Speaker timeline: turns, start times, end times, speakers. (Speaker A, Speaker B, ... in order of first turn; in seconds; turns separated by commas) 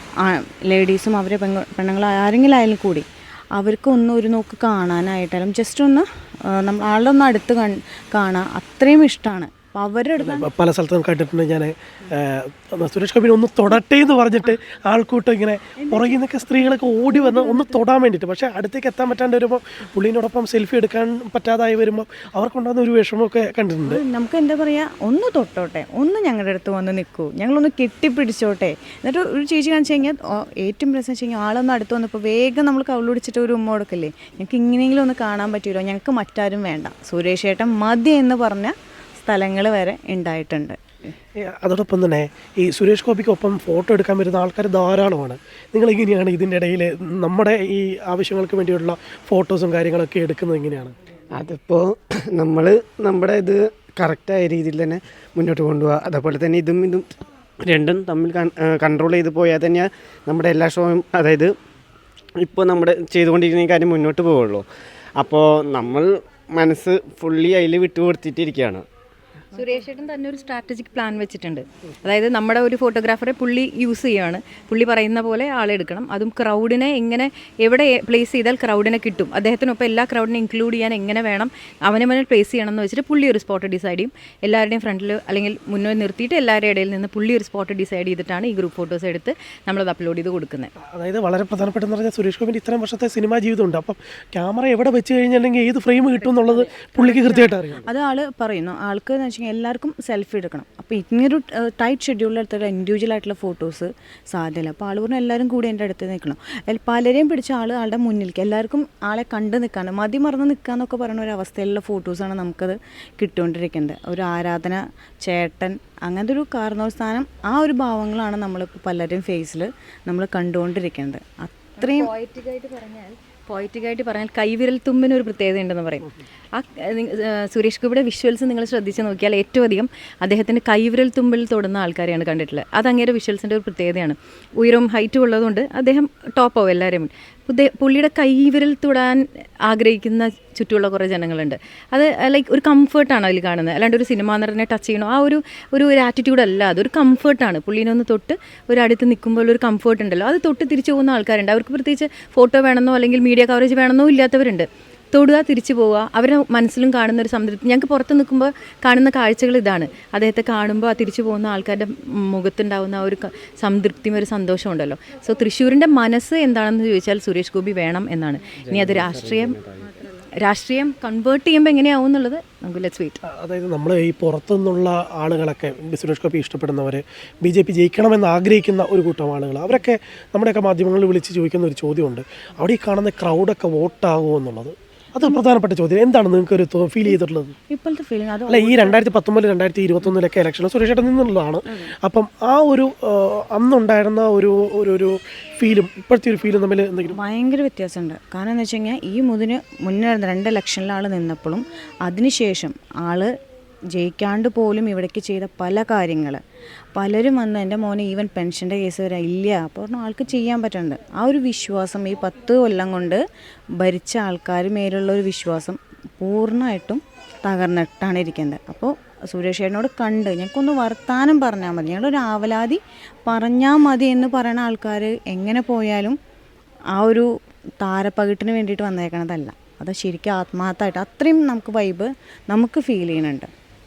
Speaker A: 0.2-10.5, Speaker B: 10.2-24.0, Speaker A: 15.8-17.8, Speaker A: 23.9-40.8, Speaker B: 41.5-51.0, Speaker C: 51.3-57.1, Speaker C: 57.6-61.5, Speaker C: 62.4-68.8, Speaker D: 69.5-90.7, Speaker B: 90.9-97.9, Speaker A: 96.4-122.1, Speaker D: 121.8-169.6, Speaker C: 168.7-169.9, Speaker D: 170.4-173.2, Speaker B: 173.3-187.6, Speaker A: 187.7-189.0, Speaker B: 188.5-197.2, Speaker A: 197.2-203.3, Speaker A: 203.9-206.4, Speaker A: 206.9-213.2, Speaker A: 213.8-226.2, Speaker A: 226.9-227.3, Speaker A: 227.8-233.5